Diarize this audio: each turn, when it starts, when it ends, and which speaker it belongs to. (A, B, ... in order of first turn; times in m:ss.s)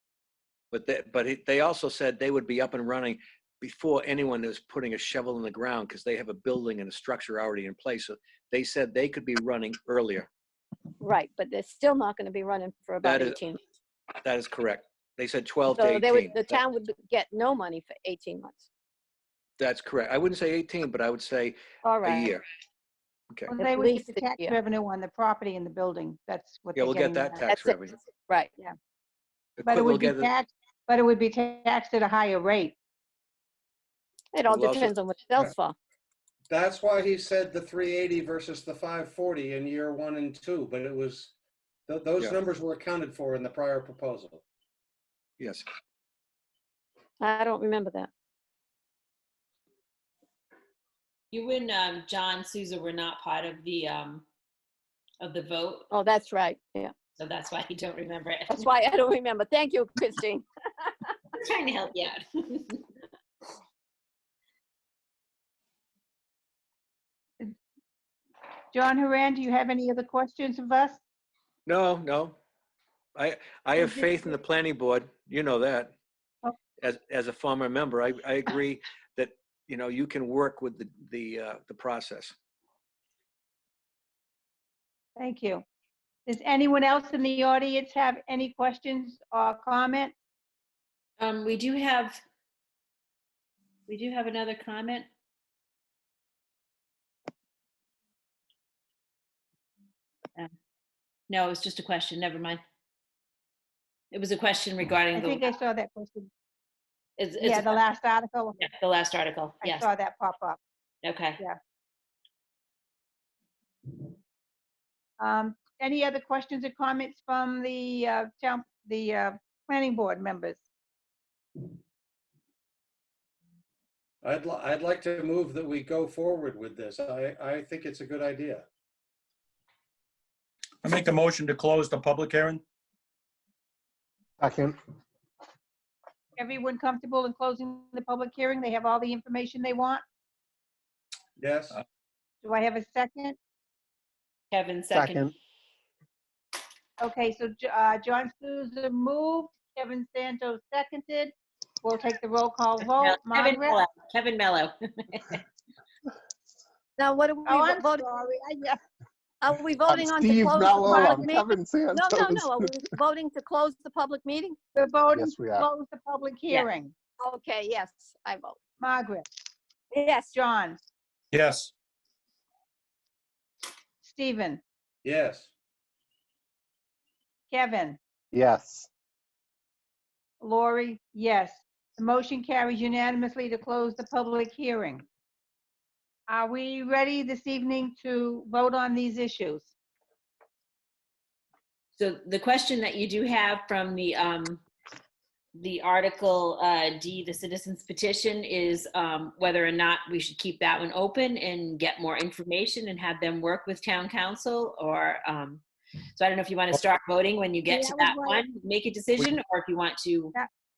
0:00.7-0:10.3 A
0:11.0-0:13.6 B
0:13.0-0:13.4 A
0:14.2-0:16.6 A
0:15.7-0:18.6 B
0:19.6-0:21.6 A
0:21.8-0:22.3 B
0:22.1-0:22.4 A
0:23.5-0:27.5 C
0:23.6-0:24.6 B
0:26.8-0:28.0 A
0:27.5-0:28.5 B
0:29.6-0:30.2 A
0:29.6-0:32.7 C
0:34.3-0:35.8 B
0:34.5-0:34.9 A
0:36.5-0:41.3 D
0:41.9-0:44.4 D
0:45.4-0:45.6 A
0:47.2-0:48.1 B
0:51.3-0:54.2 E
0:55.2-0:55.9 E
0:55.9-0:56.9 B
0:57.2-0:58.6 E
0:58.5-1:01.1 B
1:01.4-1:02.8 E
1:08.7-1:11.0 C
1:11.7-1:12.3 A
1:13.2-1:15.9 A
1:16.8-1:22.3 A
1:25.2-1:25.6 C
1:26.3-1:30.1 C
1:31.2-1:32.2 E
1:33.9-1:35.1 E
1:41.3-1:42.6 E
1:44.1-1:45.5 E
1:45.1-1:46.3 C
1:47.2-1:47.8 E
1:47.4-1:48.6 C
1:48.6-1:49.9 E
1:49.6-1:50.6 C
1:51.0-1:51.4 E
1:55.2-2:00.6 C
2:04.2-2:08.6 D
2:10.8-2:12.6 F
2:14.4-2:14.8 G
2:16.4-2:20.0 C
2:21.4-2:21.8 D
2:22.4-2:23.4 C
2:24.5-2:25.3 E
2:24.9-2:25.3 G
2:27.0-2:33.8 C
2:33.0-2:35.4 E
2:37.0-2:38.1 B
2:37.4-2:38.8 C
2:39.4-2:44.6 B
2:39.8-2:42.9 G
2:40.8-2:41.3 C
2:44.7-2:46.9 C
2:45.1-2:45.7 G
2:47.2-2:48.6 B
2:48.8-2:49.3 C
2:49.9-2:50.3 B
2:50.3-2:50.8 C
2:51.3-2:51.7 F
2:54.0-2:54.6 C
2:55.0-2:55.5 D
2:57.5-2:58.0 C
2:58.3-2:58.9 G
3:00.4-3:05.0 C
3:06.3-3:09.7 C
3:12.0-3:14.6 E
3:15.6-3:25.6 E
3:26.2-3:30.3 E
3:27.7-3:28.4 C